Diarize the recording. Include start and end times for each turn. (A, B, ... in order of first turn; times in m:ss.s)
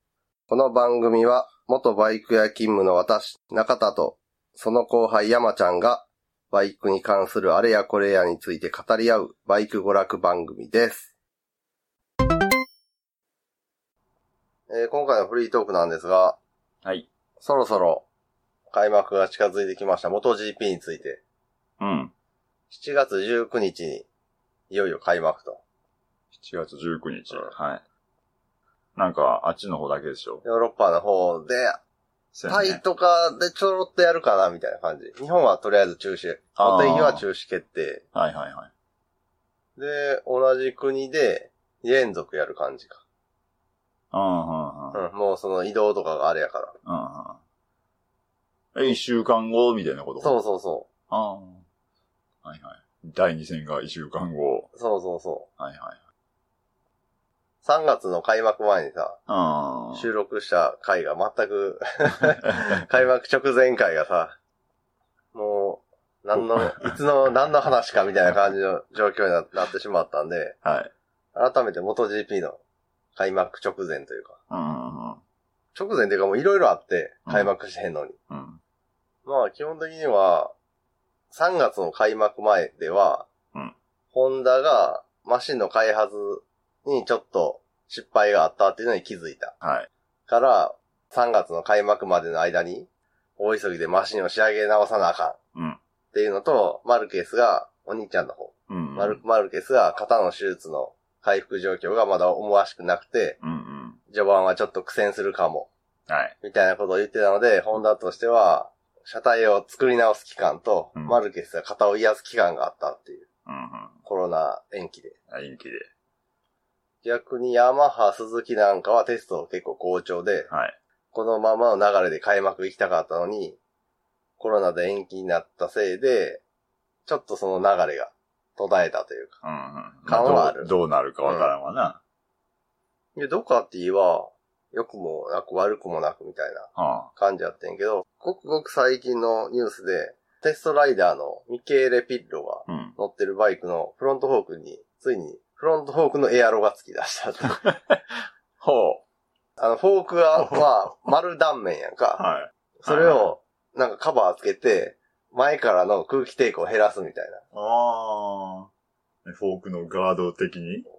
0:00.5-0:11.1 A
0:14.7-0:16.4 A
0:16.8-0:17.1 B
0:17.4-0:18.0 A
0:18.7-0:21.2 A
0:21.8-0:22.1 B
0:22.7-0:24.1 A
0:24.7-0:25.6 A
0:26.3-0:27.8 B
0:29.0-0:30.4 B
0:30.4-0:31.8 A
0:32.3-0:32.8 B
0:32.5-0:38.0 A
0:36.6-0:37.2 B
0:38.1-0:38.7 B
0:39.8-0:43.0 A
0:44.1-0:45.0 B
0:44.9-0:46.7 A
0:46.8-0:47.4 B
0:48.7-0:50.4 B
0:50.2-0:50.9 A
0:51.1-0:51.6 B
0:52.4-0:54.7 B
0:54.7-0:55.5 A
0:55.6-0:56.0 B
0:57.6-0:59.2 A
0:59.3-1:00.1 B
0:59.9-1:04.4 A
1:05.3-1:10.6 A
1:10.6-1:10.9 B
1:11.3-1:12.6 A
1:13.1-1:14.4 A
1:14.5-1:15.2 B
1:15.7-1:18.2 A
1:17.3-1:17.5 B
1:18.3-1:18.6 B
1:19.2-1:20.5 A
1:21.3-1:23.3 A
1:24.1-1:29.5 A
1:29.6-1:29.9 B
1:30.3-1:35.4 A
1:36.1-1:43.4 A
1:38.7-1:39.2 B
1:43.4-1:44.0 B
1:44.1-1:45.7 A
1:46.1-1:46.3 B
1:46.4-1:53.2 A
1:53.4-1:54.0 B
1:54.0-1:55.1 A
1:55.3-1:55.9 B
1:57.0-2:00.5 A
2:00.5-2:00.8 B
2:01.1-2:03.6 A
2:04.4-2:06.4 A
2:07.0-2:09.4 A
2:09.4-2:12.0 B
2:10.0-2:10.7 A
2:11.2-2:11.5 A
2:13.1-2:27.6 A
2:16.8-2:17.1 B
2:22.7-2:23.0 B
2:27.6-2:28.0 B
2:28.6-2:29.0 B
2:29.6-2:32.2 A
2:32.2-2:33.3 B
2:32.8-2:37.4 A
2:37.5-2:38.7 B
2:39.2-2:40.8 B